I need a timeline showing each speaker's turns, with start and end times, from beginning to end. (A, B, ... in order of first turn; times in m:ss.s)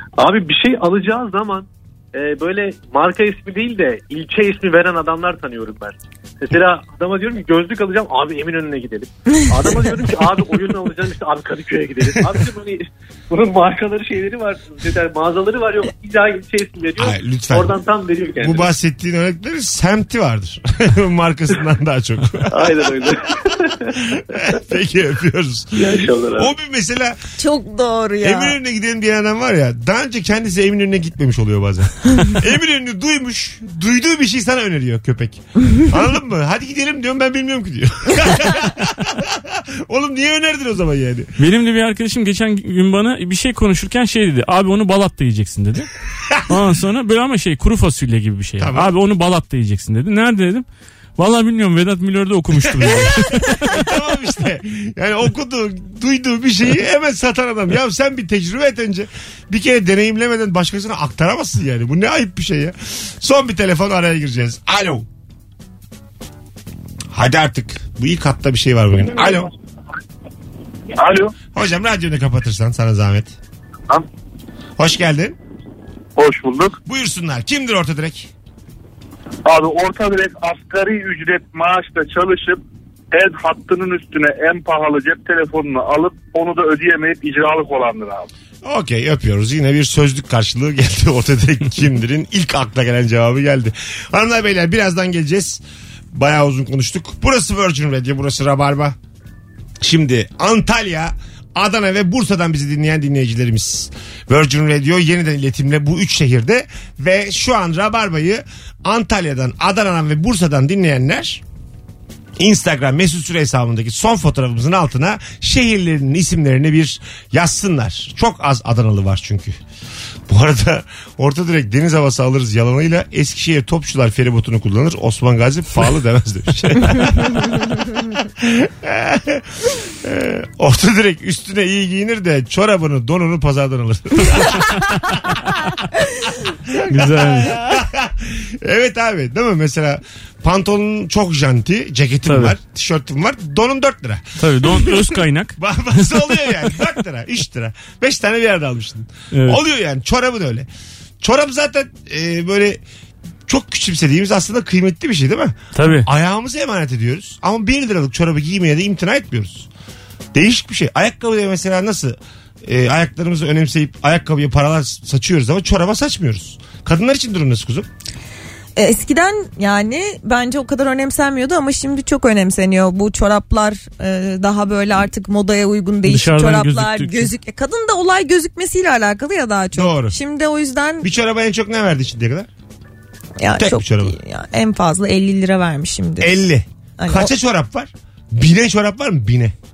0:00.2-0:18.7 A
0:17.0-0:17.8 B
0:18.4-0:22.8 B
0:22.5-0:24.0 A
0:23.9-0:27.2 B
0:25.7-0:26.5 A
0:27.4-0:28.6 C
0:28.2-0:41.3 B
0:41.4-0:45.9 D
0:46.5-0:50.6 D
0:48.6-0:48.9 B
0:51.2-0:53.9 D
0:52.7-1:05.1 B
1:07.1-1:09.5 B
1:11.0-1:11.4 E
1:11.5-1:13.4 B
1:14.8-1:15.4 B
1:16.2-1:16.8 E
1:16.8-1:18.3 B
1:19.5-1:22.6 E
1:23.1-1:28.3 E
1:28.6-1:35.6 B
1:36.1-1:39.0 B
1:39.8-1:51.4 B
1:52.4-1:59.6 B
2:00.3-2:15.4 B
2:16.5-2:30.7 B
2:16.8-2:17.6 D
2:22.3-2:22.6 D
2:24.4-2:26.7 D
2:29.3-2:29.6 D
2:31.2-2:32.8 B
2:33.5-2:39.7 B
2:35.7-2:36.1 D
2:40.3-2:47.9 B
2:48.8-3:01.1 C
2:56.0-2:57.3 D
2:59.7-3:00.2 B
3:01.0-3:02.5 B
3:03.4-3:06.4 C
3:03.6-3:04.2 B
3:06.2-3:09.6 B
3:07.0-3:07.3 C